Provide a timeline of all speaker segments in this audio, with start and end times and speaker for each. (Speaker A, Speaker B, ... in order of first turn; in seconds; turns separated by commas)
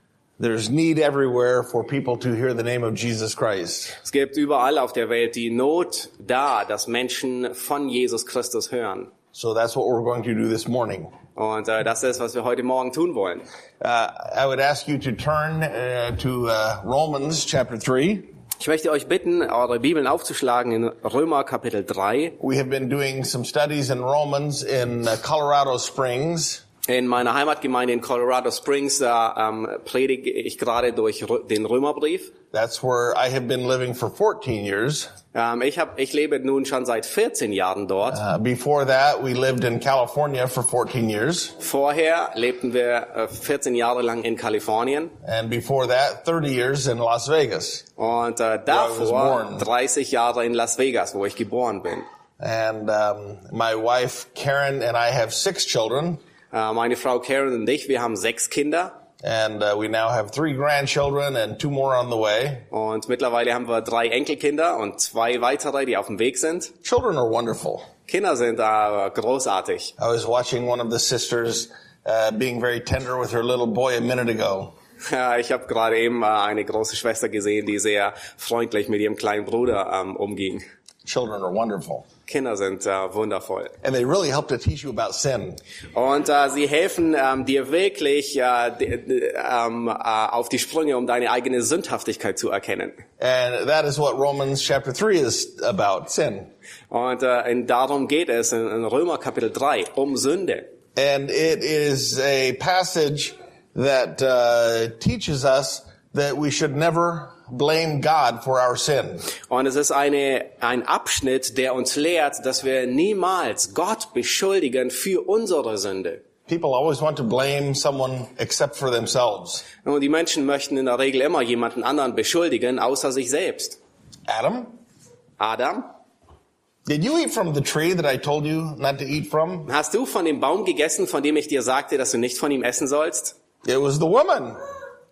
Speaker A: 0.4-4.0, Speaker B: 4.0-9.1, Speaker A: 9.3-11.1, Speaker B: 11.3-13.4, Speaker A: 13.8-18.3, Speaker B: 18.6-22.4, Speaker A: 22.4-26.6, Speaker B: 26.9-32.3, Speaker A: 32.5-35.1, Speaker B: 35.3-38.2, Speaker A: 38.1-41.5, Speaker B: 41.6-45.1, Speaker A: 45.2-47.8, Speaker B: 48.0-52.0, Speaker A: 48.7-49.7, Speaker A: 52.4-56.2, Speaker B: 56.5-58.9, Speaker A: 59.2-62.6, Speaker B: 62.7-66.7, Speaker A: 66.8-67.9, Speaker B: 68.1-69.9, Speaker A: 70.0-74.7, Speaker B: 75.0-80.6, Speaker A: 81.0-82.0, Speaker B: 82.3-83.8, Speaker A: 83.8-85.6, Speaker B: 85.9-93.0, Speaker A: 93.2-96.5, Speaker B: 96.9-100.7, Speaker A: 101.0-109.2, Speaker B: 109.5-116.2, Speaker A: 116.5-119.6, Speaker B: 119.8-123.8, Speaker A: 124.3-124.8, Speaker B: 125.4-125.9, Speaker A: 126.8-129.7, Speaker B: 129.7-133.3, Speaker A: 133.6-134.6